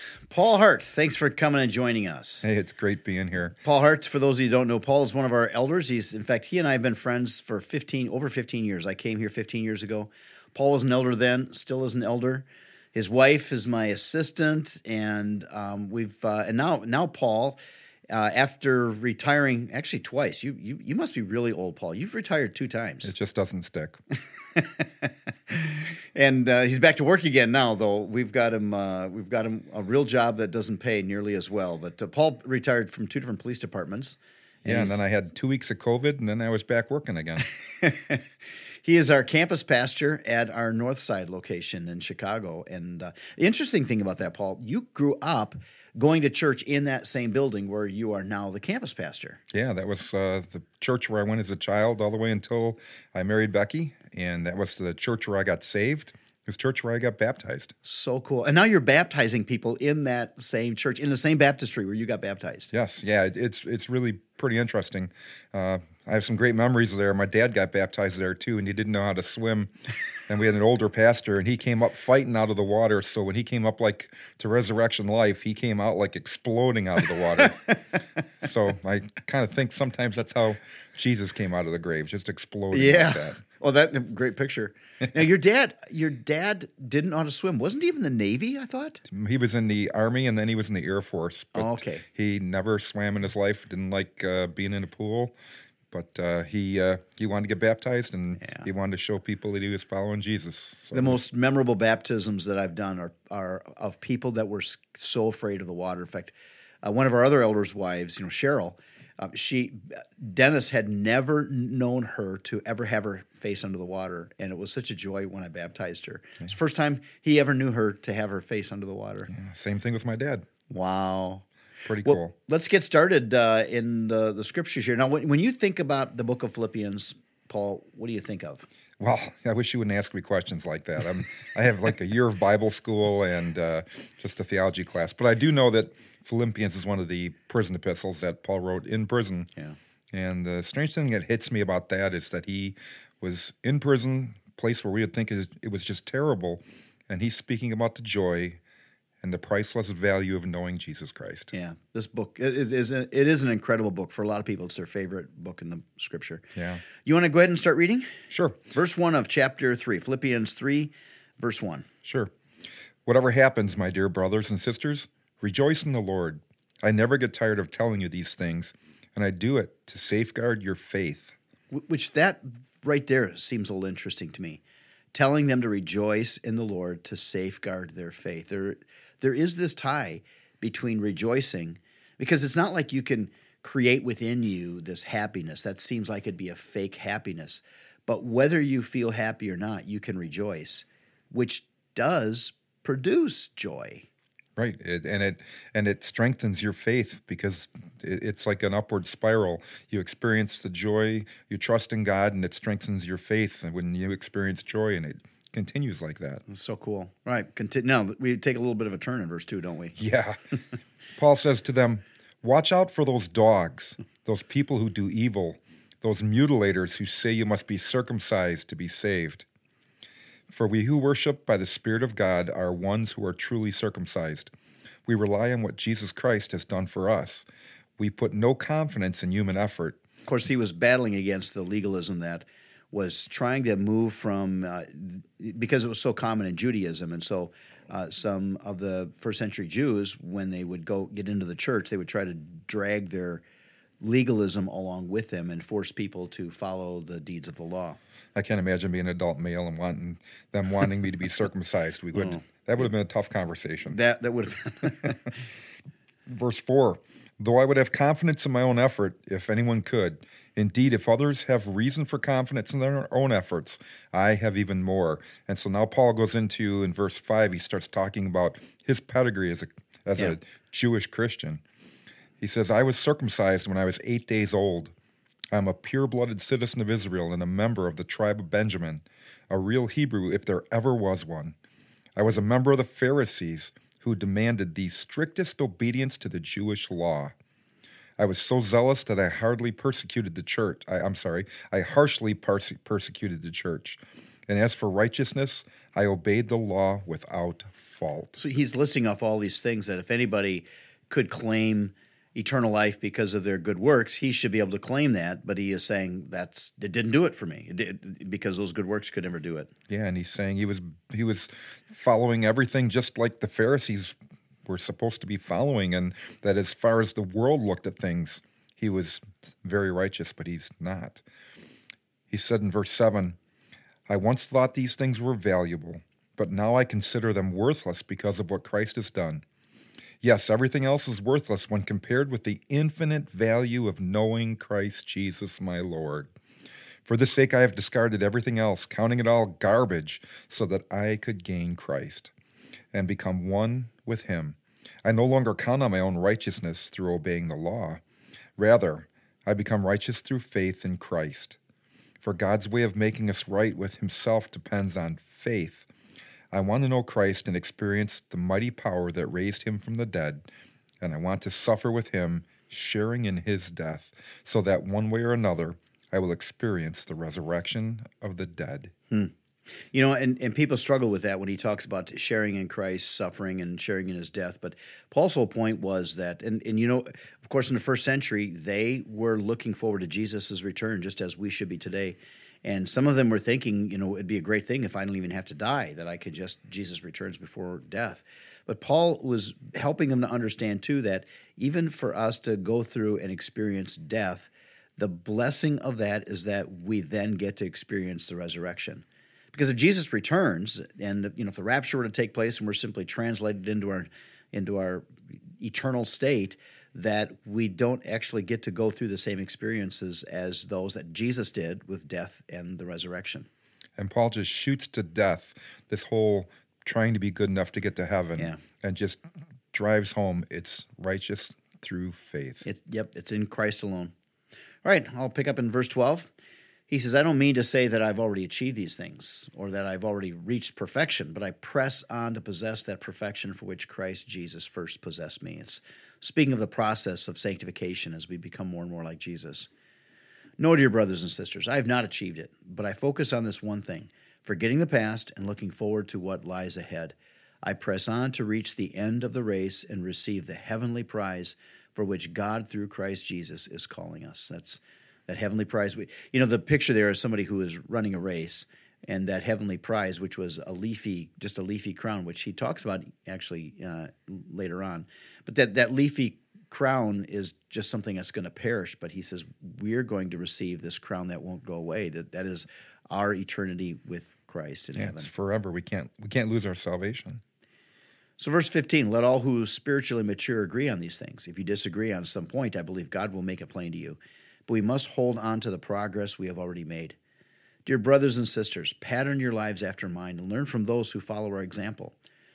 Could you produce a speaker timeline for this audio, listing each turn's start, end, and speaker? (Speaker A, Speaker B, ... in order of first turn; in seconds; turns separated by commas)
Speaker A: 0.3-2.5, Speaker B: 2.4-3.6, Speaker A: 3.6-17.6, Speaker A: 18.1-23.1, Speaker B: 23.0-24.0, Speaker A: 24.6-35.0, Speaker B: 34.6-37.5, Speaker A: 37.5-38.3, Speaker A: 38.8-49.4, Speaker B: 49.5-57.7, Speaker A: 57.8-62.7, Speaker B: 62.7-69.7, Speaker B: 70.3-77.6, Speaker A: 77.2-78.0, Speaker B: 78.4-83.4, Speaker A: 82.7-89.0, Speaker B: 89.1-95.4, Speaker A: 91.5-92.0, Speaker B: 95.9-101.2, Speaker A: 98.4-98.7, Speaker A: 100.9-119.3, Speaker B: 119.3-120.5, Speaker A: 120.7-121.5, Speaker B: 121.9-122.3, Speaker A: 122.0-128.7, Speaker B: 129.0-139.5, Speaker B: 140.1-148.6, Speaker B: 149.2-151.5, Speaker A: 151.5-156.4, Speaker B: 156.6-156.8, Speaker A: 157.0-158.1, Speaker B: 158.3-158.6, Speaker A: 158.7-161.9, Speaker B: 162.1-162.3, Speaker B: 163.1-171.3, Speaker A: 171.7-174.6, Speaker A: 175.1-194.1, Speaker B: 194.6-206.4, Speaker A: 206.5-210.0, Speaker B: 210.0-210.4, Speaker B: 211.2-219.5, Speaker B: 220.5-224.5, Speaker B: 225.1-227.5, Speaker B: 228.0-230.0, Speaker A: 230.3-243.4, Speaker A: 244.0-248.0, Speaker B: 248.3-254.0, Speaker A: 253.9-255.3, Speaker B: 256.3-271.6, Speaker B: 272.4-274.9, Speaker B: 275.5-281.6, Speaker B: 282.2-287.3, Speaker B: 288.2-298.4, Speaker A: 298.4-309.7, Speaker B: 309.9-314.2, Speaker B: 314.7-321.2, Speaker B: 322.3-323.4, Speaker B: 324.1-329.4, Speaker B: 330.2-336.3, Speaker B: 337.1-342.3, Speaker B: 342.9-348.0, Speaker B: 348.6-351.6, Speaker B: 352.2-355.9, Speaker B: 356.5-360.5, Speaker B: 361.0-368.9, Speaker A: 369.9-405.1, Speaker A: 405.6-413.5, Speaker B: 414.0-419.2, Speaker B: 419.7-422.6, Speaker A: 422.6-424.1, Speaker A: 424.8-426.3, Speaker A: 426.9-439.7, Speaker A: 440.6-475.3, Speaker B: 475.0-477.4, Speaker A: 478.4-487.2, Speaker A: 487.9-492.2